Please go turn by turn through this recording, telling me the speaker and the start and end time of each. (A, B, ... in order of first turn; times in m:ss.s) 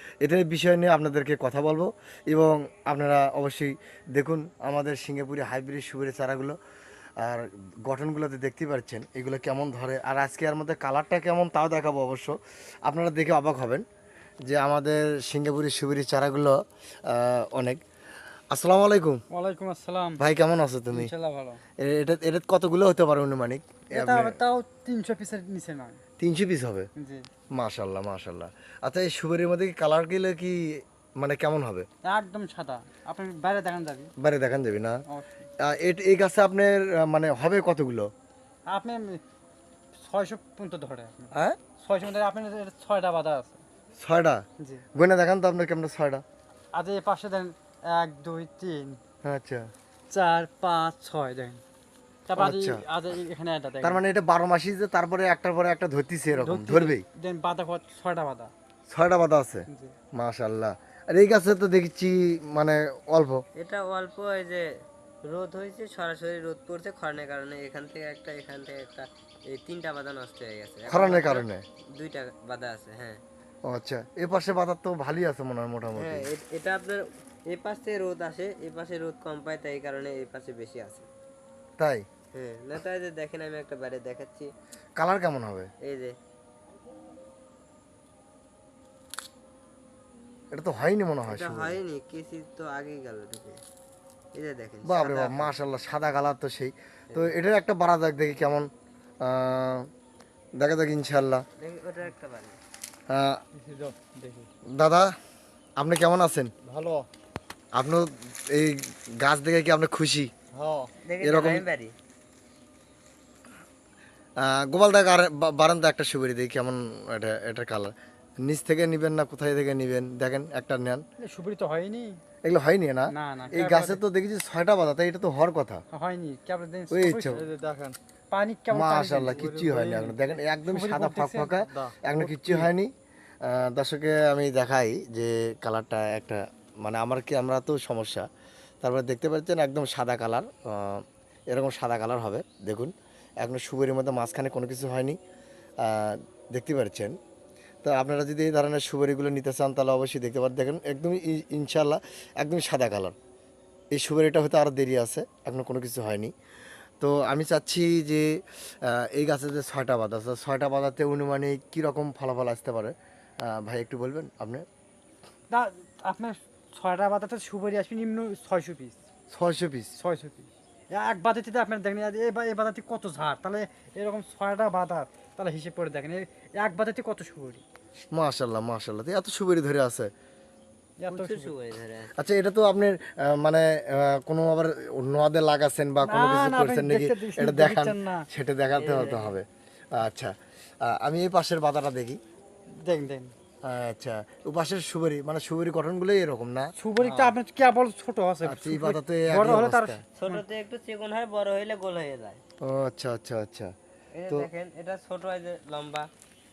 0:00.2-0:06.6 A
0:07.2-0:13.9 A
0:14.5-0:17.8 A
0:18.5-0:19.2 A
0:19.3-0:20.2 B
0:20.2-0:21.1 A
0:20.9-0:21.6 B
0:21.8-0:24.4 A
0:23.9-0:26.0 B
0:26.2-0:26.9 A
0:27.0-0:27.2 B
0:27.6-0:31.9 A
0:32.0-0:34.1 B
0:34.2-0:35.0 A
0:35.1-0:35.5 B
0:35.6-0:38.1 A
0:38.7-0:39.2 B
0:40.0-0:43.6 B
0:44.0-0:44.4 A
0:44.6-0:44.8 B
0:45.0-0:46.2 A
0:46.7-0:49.0 B
0:49.2-0:49.7 A
0:50.1-0:51.6 B
0:52.3-0:54.0 B
0:52.4-0:52.8 A
0:53.8-0:57.0 A
0:56.3-0:58.5 B
0:58.9-1:03.4 A
0:59.7-1:00.0 B
1:03.6-1:04.6 C
1:05.3-1:13.2 C
1:10.9-1:11.6 A
1:13.7-1:16.3 A
1:15.9-1:21.1 C
1:21.8-1:22.0 A
1:22.3-1:24.5 C
1:25.0-1:25.7 A
1:25.8-1:26.1 C
1:30.5-1:31.8 A
1:31.2-1:33.6 C
1:34.3-1:35.5 C
1:34.8-1:38.7 A
1:39.2-1:39.9 A
1:40.6-1:41.4 A
1:41.6-1:42.6 C
1:43.1-1:43.4 A
1:43.6-1:44.5 B
1:44.8-1:45.1 A
1:45.8-1:46.5 A
1:46.6-1:47.1 B
1:47.8-1:50.3 A
1:50.5-1:50.9 B
1:51.0-1:51.9 C
1:51.2-1:51.6 A
1:54.4-2:01.0 A
2:01.2-2:02.2 B
2:02.4-2:05.8 A
2:03.1-2:04.0 B
2:05.9-2:12.7 B
2:06.9-2:07.4 A
2:08.7-2:12.9 A
2:13.4-2:18.2 A
2:18.8-2:25.2 A
2:25.8-2:27.2 A
2:27.8-2:33.2 A
2:33.9-2:36.3 A
2:37.0-2:44.6 A
2:45.5-2:49.0 B
2:49.3-2:49.9 A
2:50.0-2:57.6 B
2:58.1-3:00.1 A
3:01.0-3:01.5 B
3:01.1-3:02.2 C
3:02.2-3:12.2 A
3:06.0-3:08.2 B
3:08.7-3:09.4 C
3:12.7-3:13.3 B
3:13.6-3:17.3 A
3:16.8-3:20.4 B
3:17.0-3:17.3 C
3:18.4-3:20.0 A
3:20.2-3:22.4 C
3:22.6-3:23.7 A
3:24.2-3:26.1 C